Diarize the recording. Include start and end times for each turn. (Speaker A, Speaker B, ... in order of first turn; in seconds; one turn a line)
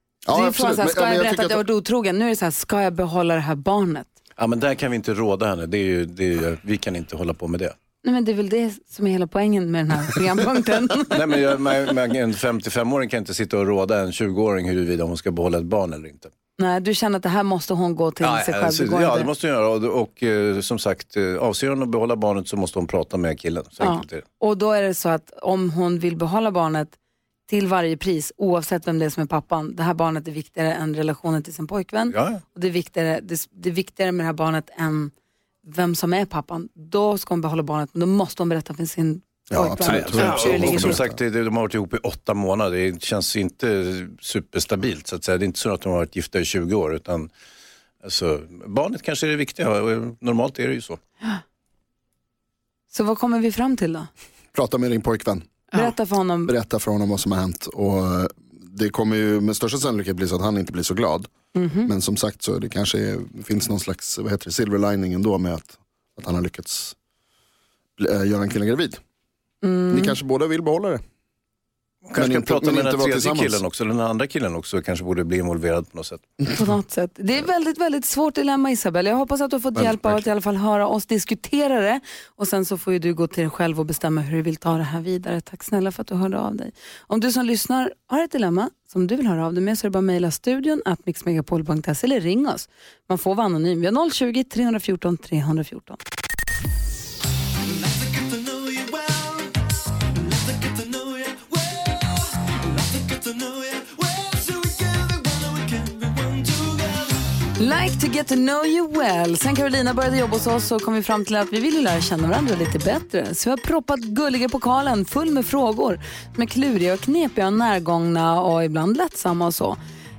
Speaker A: 0.2-1.6
Speaker B: 0.3-4.1
Speaker C: 4.4-7.7
Speaker B: 8.0-11.2
Speaker C: 11.1-16.3
Speaker B: 16.6-19.3
Speaker C: 18.2-24.2
Speaker B: 23.8-26.9
Speaker B: 27.5-35.1
Speaker C: 32.1-32.4
Speaker B: 35.6-41.0
Speaker A: 39.5-41.2
Speaker C: 39.8-47.3
Speaker C: 48.0-51.0
Speaker B: 52.9-54.1
Speaker A: 54.5-55.5
Speaker B: 55.7-56.5
Speaker A: 56.5-61.3
Speaker B: 61.5-61.9
Speaker A: 61.8-66.9
Speaker A: 68.0-69.0
Speaker B: 69.6-70.2
Speaker A: 69.9-71.0
Speaker C: 72.0-76.3
Speaker A: 72.2-73.6
Speaker B: 76.5-96.0
Speaker A: 79.8-80.1
Speaker B: 107.6-119.8